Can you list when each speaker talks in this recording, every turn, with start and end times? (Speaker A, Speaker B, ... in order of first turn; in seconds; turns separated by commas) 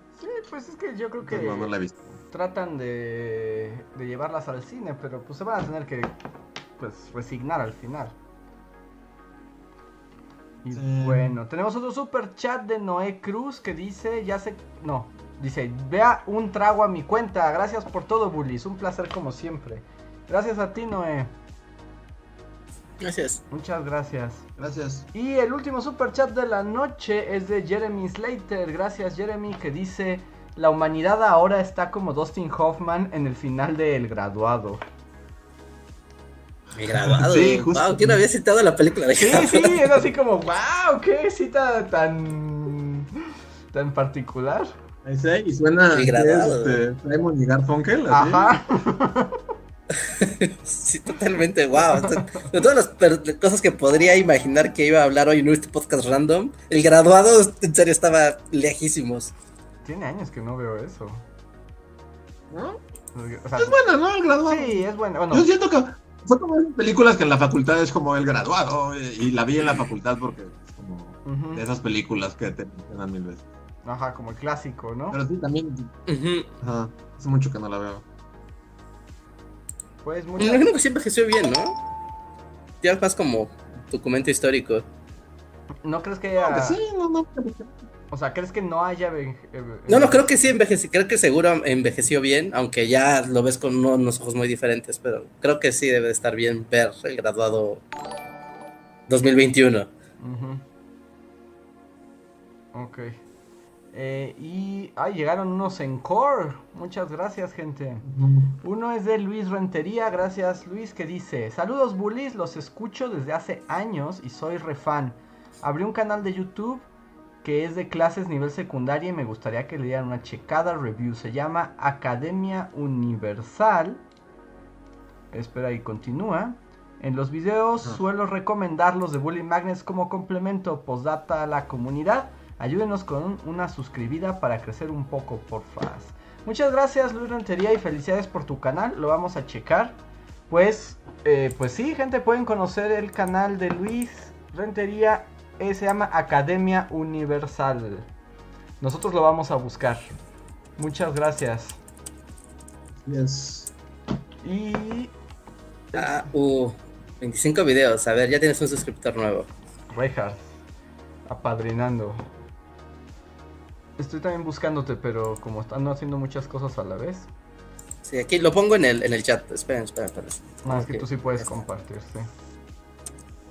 Speaker A: 0.2-1.7, Speaker B: 1.2-2.1, Speaker A: 2.3-6.1, Speaker A: 6.8-8.2, Speaker A: 10.6-21.3, Speaker B: 10.7-11.3, Speaker C: 23.0-23.4, Speaker A: 23.5-24.4, Speaker B: 24.6-25.1, Speaker A: 25.1-34.8, Speaker C: 36.7-39.9, Speaker B: 37.1-38.2, Speaker A: 39.1-43.2, Speaker A: 43.7-44.7, Speaker B: 45.0-48.5, Speaker C: 45.9-46.8, Speaker A: 48.1-49.4, Speaker C: 50.0-59.3, Speaker A: 51.9-52.2, Speaker A: 59.8-61.2, Speaker B: 62.5-62.8, Speaker A: 63.1-63.8, Speaker B: 63.6-73.4, Speaker A: 64.5-65.5, Speaker A: 71.2-71.6, Speaker A: 73.8-75.2, Speaker B: 75.1-75.9, Speaker C: 76.1-76.5, Speaker B: 76.6-78.0, Speaker A: 80.0-80.7, Speaker C: 80.4-81.8, Speaker C: 82.8-84.8, Speaker A: 85.8-86.8, Speaker B: 86.4-87.7, Speaker A: 88.1-90.3, Speaker C: 89.9-97.8, Speaker C: 99.1-99.9, Speaker A: 100.2-100.6, Speaker A: 102.7-103.2, Speaker A: 103.9-108.0, Speaker B: 108.0-108.5, Speaker A: 108.6-116.8, Speaker A: 117.4-124.0, Speaker A: 125.3-140.0, Speaker A: 140.5-148.1, Speaker A: 148.8-150.1, Speaker A: 150.8-151.8, Speaker B: 153.0-153.7, Speaker A: 154.4-155.1, Speaker A: 155.9-156.2, Speaker C: 155.9-159.5, Speaker A: 159.9-160.5, Speaker A: 161.3-162.2, Speaker A: 164.0-167.3, Speaker C: 168.0-171.1, Speaker A: 170.6-172.3